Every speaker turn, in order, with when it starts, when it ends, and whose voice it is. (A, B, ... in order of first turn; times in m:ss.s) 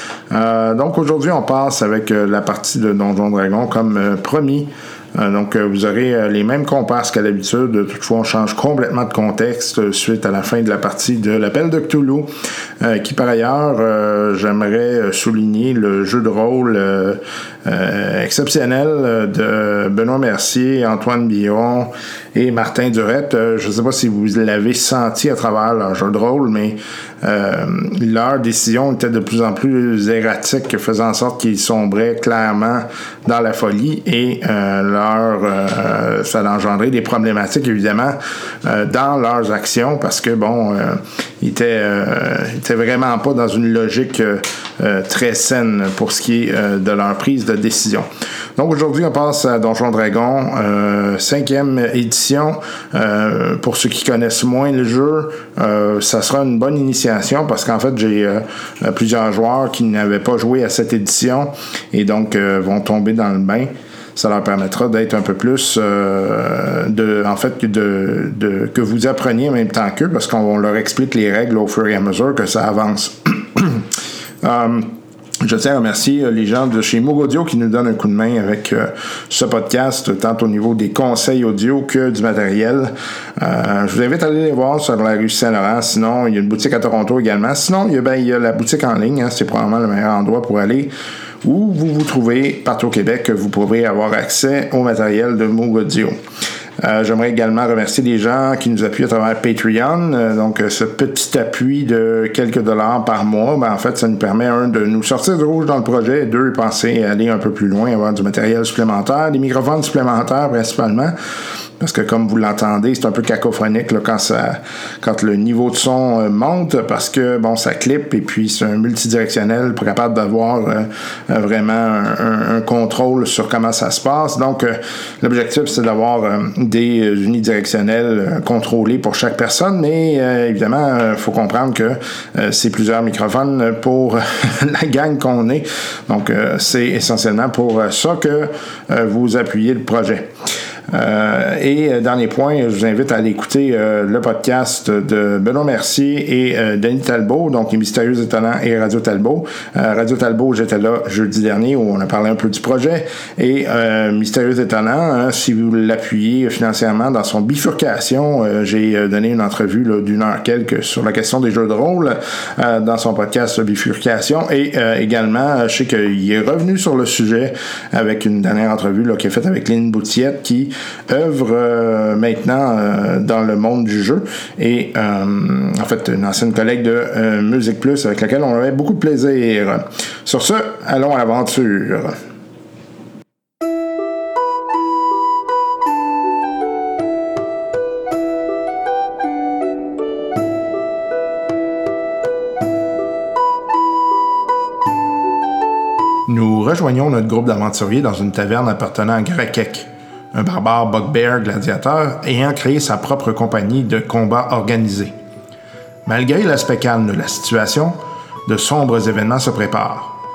0:00.3-0:12.3 A
0:12.8-1:13.9 A
1:14.4-1:30.9 A
1:31.4-1:36.2 A
1:36.8-1:51.1 A
1:51.8-2:20.3 A
2:20.9-3:02.2 A
3:16.3-3:25.2 A
3:26.1-3:30.2 A